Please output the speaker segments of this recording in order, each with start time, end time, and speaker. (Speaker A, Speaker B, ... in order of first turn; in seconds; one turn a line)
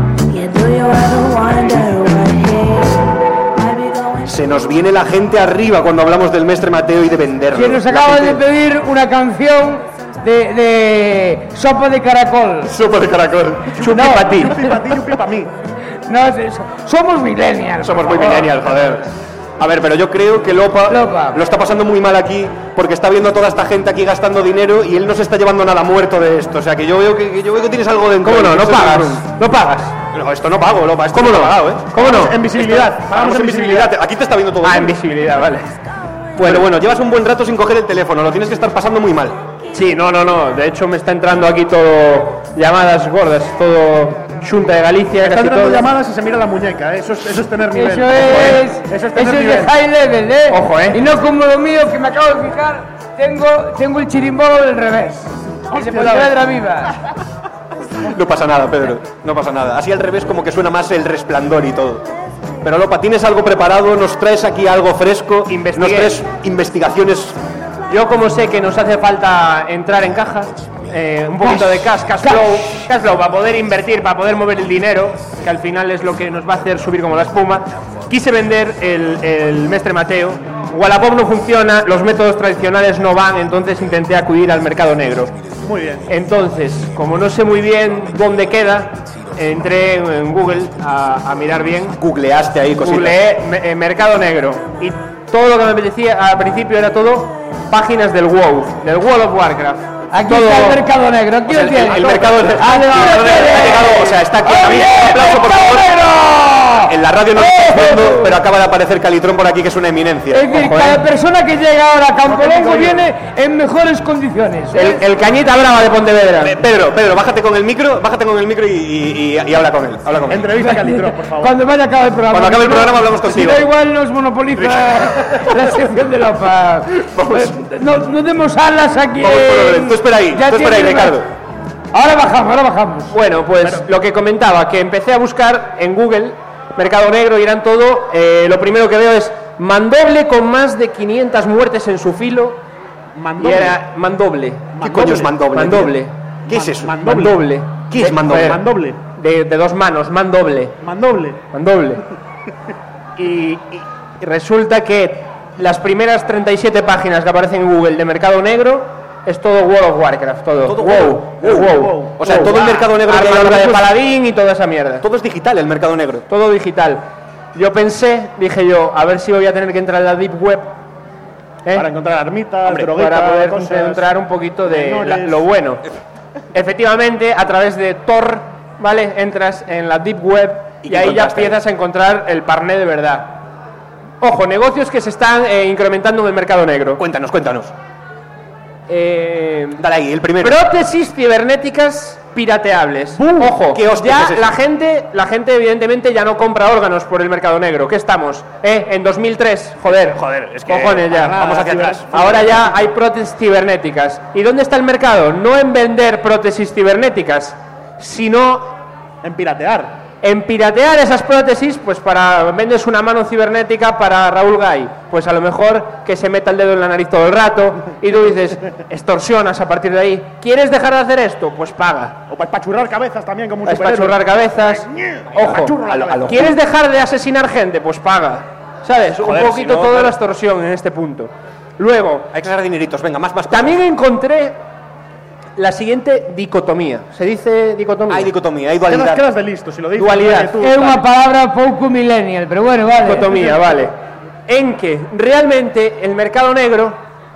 Speaker A: 0.3-4.4
Speaker B: 4.2-8.4
Speaker C: 7.5-12.7
Speaker B: 12.7-14.1
Speaker D: 13.8-15.5
Speaker E: 13.8-14.5
Speaker C: 13.9-14.8
Speaker C: 16.1-18.6
Speaker B: 17.8-19.1
Speaker B: 19.6-29.2
Speaker C: 20.9-21.4
Speaker E: 28.2-29.9
Speaker B: 30.1-35.0
Speaker E: 31.1-32.4
Speaker D: 31.9-33.9
Speaker E: 34.6-35.7
Speaker E: 36.4-36.7
Speaker B: 36.4-39.4
Speaker E: 39.7-45.9
Speaker D: 45.2-49.7
Speaker C: 47.7-56.9
Speaker E: 50.5-51.0
Speaker D: 55.7-56.4
Speaker B: 58.0-62.1
Speaker B: 62.6-67.4
Speaker E: 65.5-66.2
Speaker E: 67.9-85.3
Speaker C: 72.2-72.6
Speaker D: 85.7-86.1
Speaker E: 86.1-92.0
Speaker B: 92.0-93.2
Speaker E: 92.8-100.8
Speaker C: 100.1-108.4
Speaker B: 101.5-106.0
Speaker E: 101.6-102.5
Speaker B: 106.9-110.5
Speaker C: 110.3-115.0
Speaker E: 110.5-111.0
Speaker D: 112.3-113.1
Speaker E: 114.7-116.6
Speaker B: 116.4-120.5
Speaker D: 120.3-121.5
Speaker C: 120.6-131.2
Speaker B: 122.3-123.7
Speaker B: 124.5-125.5
Speaker B: 127.0-127.6
Speaker B: 129.2-131.3
Speaker C: 131.9-133.1
Speaker E: 133.1-142.6
Speaker D: 143.2-143.8
Speaker E: 143.4-146.1
Speaker D: 144.8-145.3
Speaker B: 144.8-147.0
Speaker D: 146.5-147.4
Speaker E: 147.0-150.8
Speaker B: 147.9-148.6
Speaker D: 148.3-149.0
Speaker D: 150.8-151.4
Speaker E: 151.5-152.0
Speaker E: 153.2-165.1
Speaker B: 160.6-163.9
Speaker D: 161.5-162.8
Speaker B: 165.0-166.3
Speaker E: 166.3-167.0
Speaker E: 167.6-170.7
Speaker D: 171.8-174.1
Speaker E: 172.7-175.8
Speaker D: 174.7-175.4
Speaker E: 176.5-183.4
Speaker B: 180.8-181.6
Speaker E: 184.2-187.0
Speaker B: 187.0-187.7
Speaker E: 188.9-189.8
Speaker B: 189.8-190.6
Speaker E: 190.4-201.4
Speaker B: 193.2-194.5
Speaker B: 199.9-202.7
Speaker D: 201.1-202.3
Speaker E: 202.1-208.7
Speaker D: 209.2-210.0
Speaker E: 210.2-222.2
Speaker D: 222.3-226.5
Speaker E: 223.7-232.3
Speaker B: 225.8-226.6
Speaker B: 229.2-230.2
Speaker B: 232.3-233.8
Speaker E: 233.5-234.6
Speaker E: 235.6-238.3
Speaker B: 238.1-239.2
Speaker D: 238.9-241.0
Speaker E: 240.0-240.6
Speaker C: 240.6-243.3
Speaker E: 243.0-243.9
Speaker D: 243.4-243.6
Speaker E: 244.5-247.0